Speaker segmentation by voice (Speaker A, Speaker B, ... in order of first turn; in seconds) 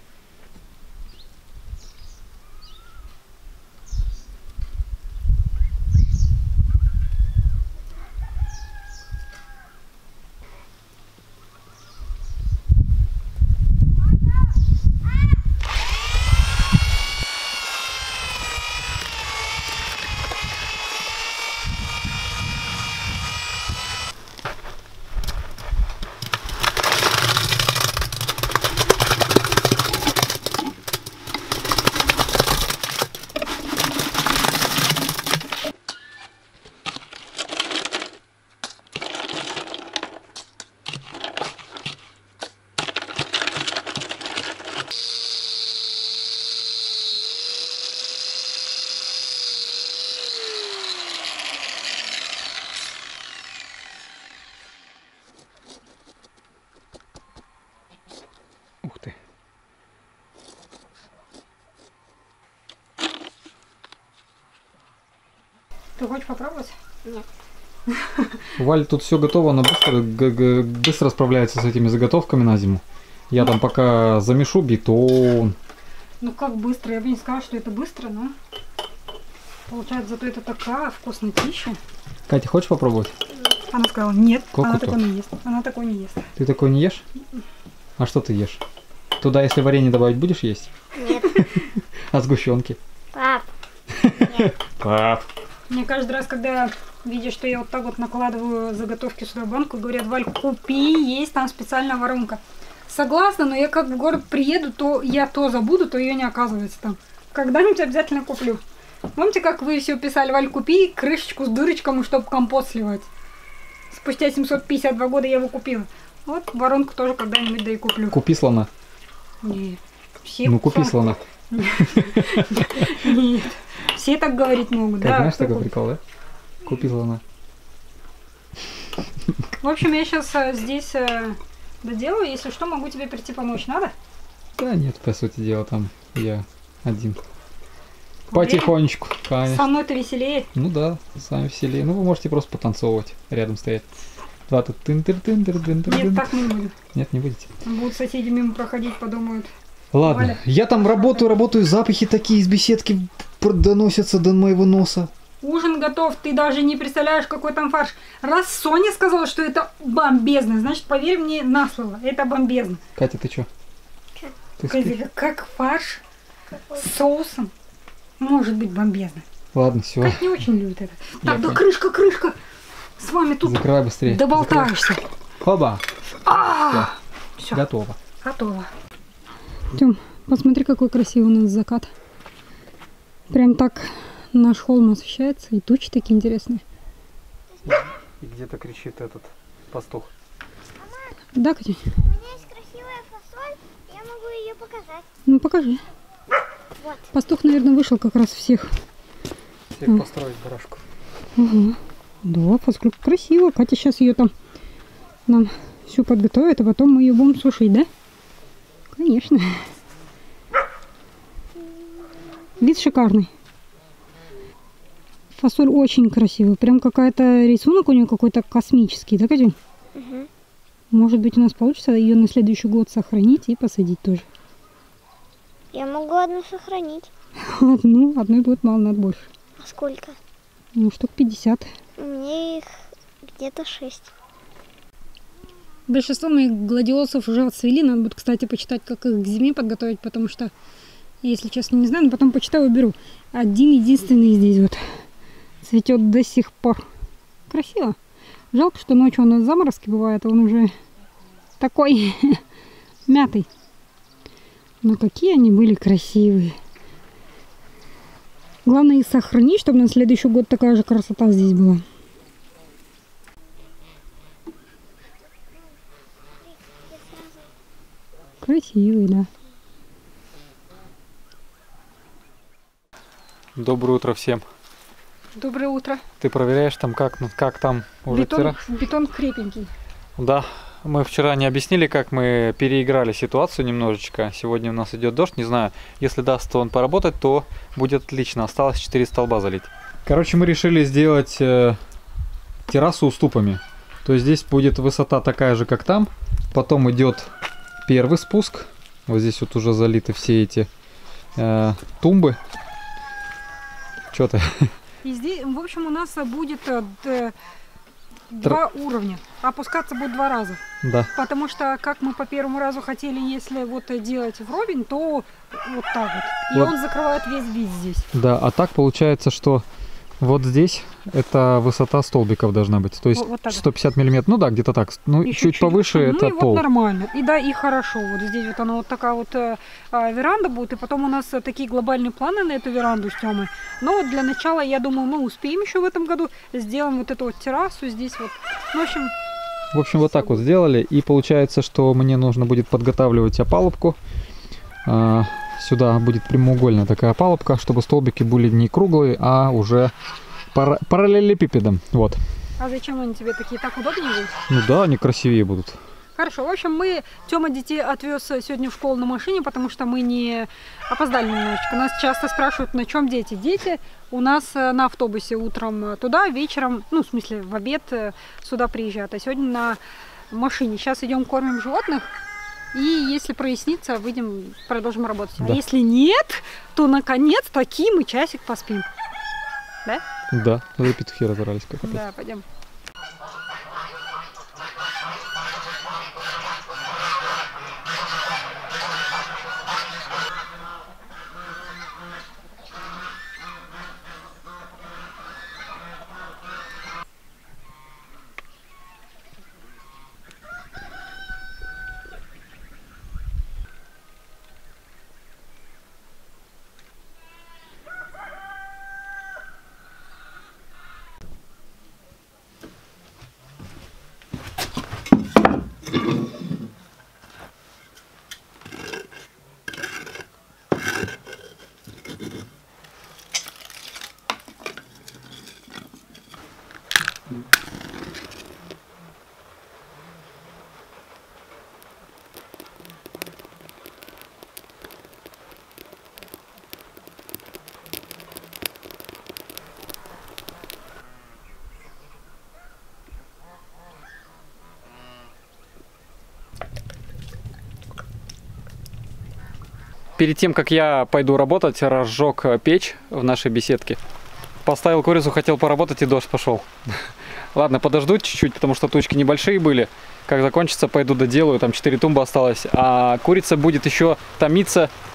Speaker A: 58.8-59.2, 68.6-75.6, 82.3-83.1, 84.5-85.0, 86.4-87.0, 88.0-88.6, 89.2-90.7, 91.3-92.8, 93.9-95.3, 118.1-118.7, 120.4-121.2, 121.8-122.9, 125.0-126.0, 126.6-127.2, 134.6-137.2, 138.3-139.7, 140.6-143.8, 144.5-146.4, 146.9-147.5, 149.9-155.1, 163.0-163.5, 164.6-165.0, 169.5-170.4, 171.2-171.6, 173.4-174.7, 175.4-175.8, 176.6-176.9, 177.5-178.0, 187.7-190.1, 199.7-200.8, 273.6-274.4, 276.2-278.6, 280.2-291.8, 292.7-297.3, 297.9-300.7, 301.4-302.4, 304.1-304.7, 310.8-311.1, 316.5-316.8, 318.1-319.6, 320.2-326.6, 339.7-344.0, 344.9-349.9, 350.5-352.2, 354.5-355.8, 380.3-382.1, 450.2-454.0, 454.6-464.9
Speaker B: 66.0-66.8, 67.9-68.5, 76.2-78.3, 79.7-81.8, 83.7-86.3, 95.7-108.6, 109.2-113.1, 113.9-118.2, 119.4-125.7, 129.6-133.9, 138.3-138.8, 139.4-140.5, 145.9-146.7, 147.6-149.5, 150.0-150.4, 155.4-162.8, 164.7-166.0, 166.7-167.5, 168.2-169.2, 170.0-172.4, 173.0-175.0, 176.2-177.6, 178.2-178.7, 179.7-181.9, 183.3-186.6, 191.3-191.9, 195.3-195.8, 197.1-198.7, 201.4-204.3, 205.3-207.9, 208.9-209.7, 212.6-213.3, 215.4-219.6, 220.9-224.2, 227.4-229.3, 230.8-231.7, 235.9-240.5, 241.2-245.0, 245.6-246.8, 247.5-248.0, 248.5-250.7, 251.6-252.4, 253.1-253.5, 254.8-256.6, 258.7-261.8, 268.4-269.3, 275.4-276.0, 278.1-279.7, 305.0-307.4, 308.3-310.6, 311.1-318.1, 323.1-323.6, 325.2-339.1, 340.0-340.4, 352.6-354.4, 356.2-369.8, 370.3-372.1, 372.7-378.9, 381.8-382.5
Speaker C: 91.0-91.5, 93.1-93.5, 190.8-191.1, 192.0-195.1, 196.8-197.1, 219.9-220.3, 225.7-227.1, 229.6-230.2, 232.0-232.7, 233.2-234.1, 266.5-267.4